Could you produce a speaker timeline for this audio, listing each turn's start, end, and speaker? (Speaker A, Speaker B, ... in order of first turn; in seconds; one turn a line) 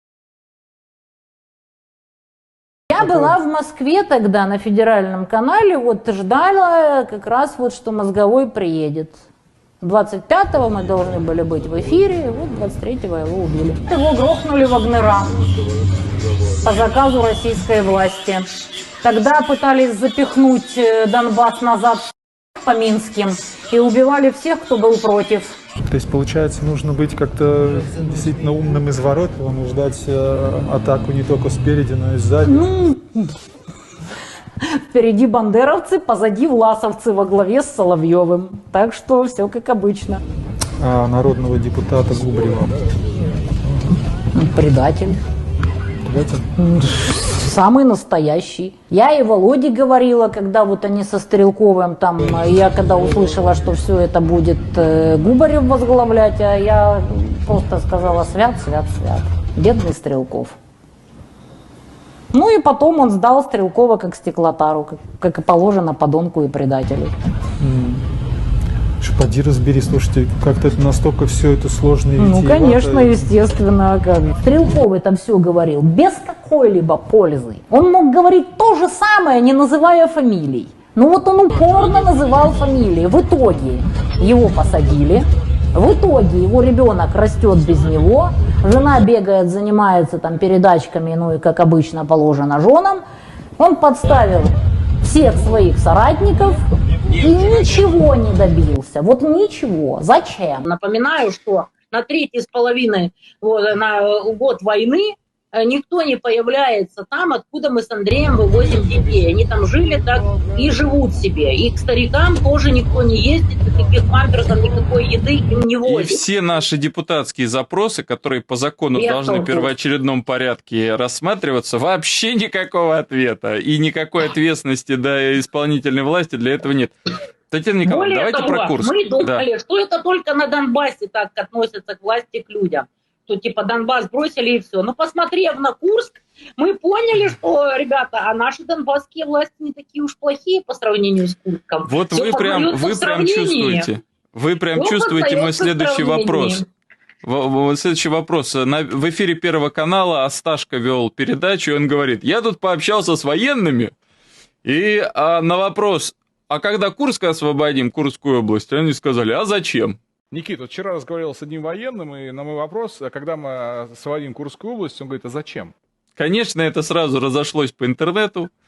Speaker A: 2.9-9.2
Speaker A: 9.8-15.4
Speaker B: 15.6-16.6
Speaker A: 16.6-18.5
Speaker A: 19.0-22.0
Speaker A: 22.6-25.5
Speaker C: 25.9-32.7
Speaker A: 32.4-33.3
Speaker A: 34.7-40.2
Speaker C: 40.8-42.8
Speaker A: 44.3-45.2
Speaker C: 46.0-46.5
Speaker A: 46.6-60.6
Speaker A: 62.3-67.1
Speaker C: 67.6-68.0
Speaker C: 69.0-73.3
Speaker A: 72.2-93.0
Speaker A: 93.6-100.6
Speaker B: 100.6-116.2
Speaker D: 115.8-126.9
Speaker B: 118.9-119.7
Speaker D: 127.5-129.4
Speaker B: 127.8-143.9
Speaker D: 141.8-146.6
Speaker B: 144.7-146.6
Speaker D: 147.2-153.9
Speaker D: 154.6-160.0
Speaker E: 160.3-165.7
Speaker D: 166.2-168.5